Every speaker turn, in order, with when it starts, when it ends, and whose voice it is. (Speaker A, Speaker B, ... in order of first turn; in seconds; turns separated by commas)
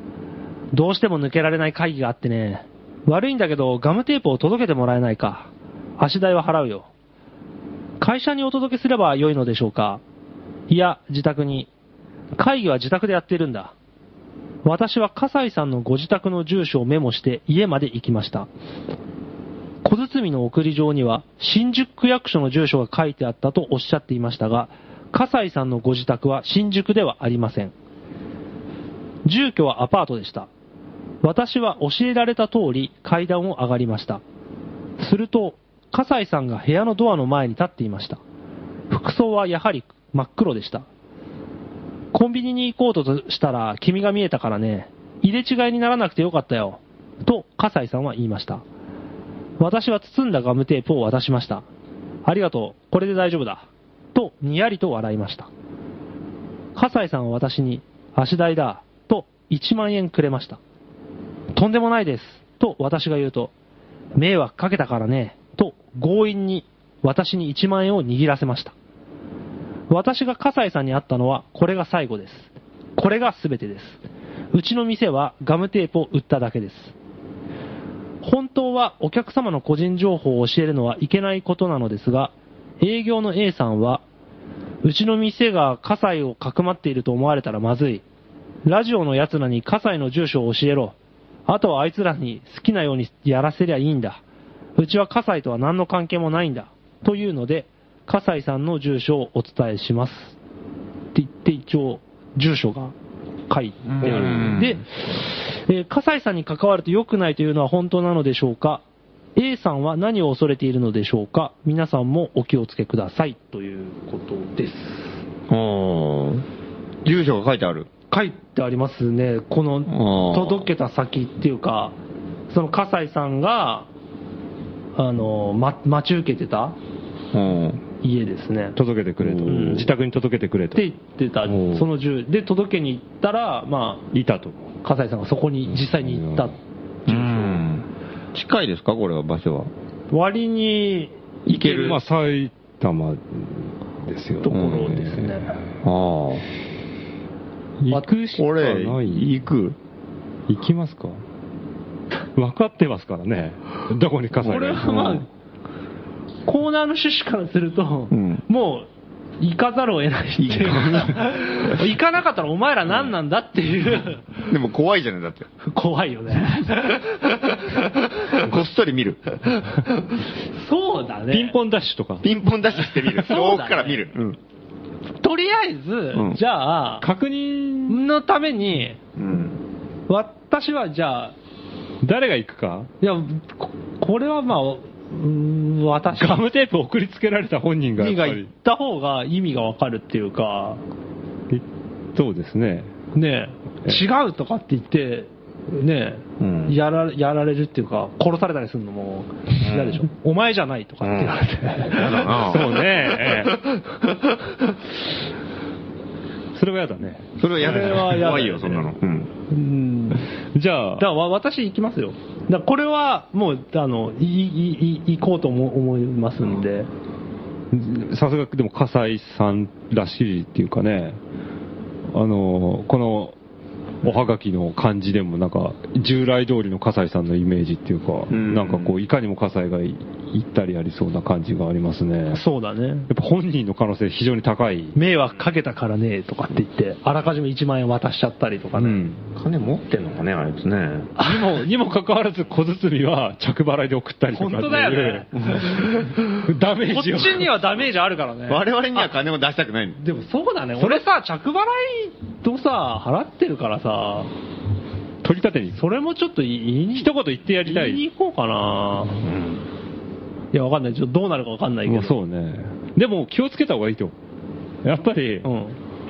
Speaker A: 0.7-6.9, Speaker A: 8.0-10.0, Speaker A: 10.7-11.7, Speaker A: 12.4-13.7, Speaker A: 14.6-18.5, Speaker A: 19.8-27.7, Speaker A: 29.2-30.5, Speaker A: 31.2-34.2, Speaker A: 35.0-38.2, Speaker A: 38.9-40.9, Speaker A: 42.1-48.6, Speaker A: 49.6-51.6, Speaker A: 52.2-55.5, Speaker A: 56.8-60.6, Speaker A: 61.5-63.5, Speaker A: 64.2-68.7, Speaker A: 69.9-74.0, Speaker A: 74.5-76.9, Speaker A: 78.2-84.0, Speaker A: 84.8-88.0, Speaker A: 88.6-91.0, Speaker A: 91.5-94.2, Speaker A: 94.8-100.4, Speaker A: 101.1-102.9, Speaker A: 103.5-108.8, Speaker B: 104.0-104.8, Speaker C: 104.0-104.5, Speaker A: 109.3-115.2, Speaker B: 115.5-116.4, Speaker B: 117.0-117.9, Speaker A: 118.1-121.9, Speaker B: 119.9-120.7, Speaker A: 122.5-123.9, Speaker A: 125.0-126.8, Speaker B: 127.3-127.8, Speaker A: 128.0-128.8, Speaker C: 128.8-130.8, Speaker B: 129.2-129.7, Speaker A: 129.4-129.9, Speaker A: 130.7-134.0, Speaker C: 131.5-131.8, Speaker C: 134.1-134.7, Speaker A: 134.8-137.6, Speaker C: 135.7-136.5, Speaker B: 137.1-139.7, Speaker A: 140.1-142.0, Speaker B: 141.5-142.0, Speaker C: 141.8-145.6, Speaker A: 144.4-145.5, Speaker B: 144.5-144.9, Speaker B: 145.8-146.4, Speaker C: 147.8-149.3, Speaker B: 148.3-149.8, Speaker C: 150.5-151.2, Speaker C: 152.3-155.2, Speaker A: 154.4-155.2, Speaker A: 156.4-158.9, Speaker B: 158.1-158.4, Speaker A: 159.4-164.3, Speaker B: 160.4-161.0, Speaker C: 160.5-161.2, Speaker B: 164.5-165.5, Speaker A: 165.6-167.0, Speaker B: 167.1-169.6, Speaker A: 170.5-171.6, Speaker C: 171.3-172.2, Speaker B: 172.2-174.4, Speaker A: 173.2-174.1, Speaker A: 175.2-177.1, Speaker B: 176.1-176.4, Speaker C: 177.0-178.0, Speaker A: 177.9-179.0, Speaker B: 179.2-179.6, Speaker A: 180.1-181.3, Speaker C: 182.0-182.9, Speaker A: 183.0-186.4, Speaker C: 186.2-188.5, Speaker A: 188.0-190.8, Speaker C: 192.1-192.9, Speaker A: 193.1-202.4, Speaker B: 196.4-196.8, Speaker B: 199.6-200.0, Speaker B: 201.0-203.6, Speaker C: 202.2-203.6, Speaker C: 206.5-208.2, Speaker B: 207.4-209.3, Speaker A: 207.6-208.9, Speaker A: 209.5-210.3, Speaker C: 210.5-211.1, Speaker A: 211.0-216.9, Speaker C: 217.7-221.2, Speaker C: 222.1-223.3, Speaker C: 224.0-232.4, Speaker B: 228.3-228.9, Speaker A: 232.3-233.1, Speaker C: 233.1-234.9, Speaker A: 234.9-239.0, Speaker C: 238.8-239.2, Speaker B: 239.3-241.1, Speaker A: 241.2-241.6, Speaker C: 241.2-247.6, Speaker A: 244.3-245.3, Speaker B: 245.3-246.2, Speaker A: 246.9-249.1, Speaker B: 248.5-250.0, Speaker A: 250.0-254.3, Speaker C: 255.2-255.8, Speaker A: 255.7-257.1, Speaker C: 256.9-258.0, Speaker A: 257.6-259.2, Speaker B: 259.2-259.6, Speaker A: 260.5-262.1, Speaker C: 261.9-264.1, Speaker C: 264.8-265.5, Speaker A: 265.4-265.8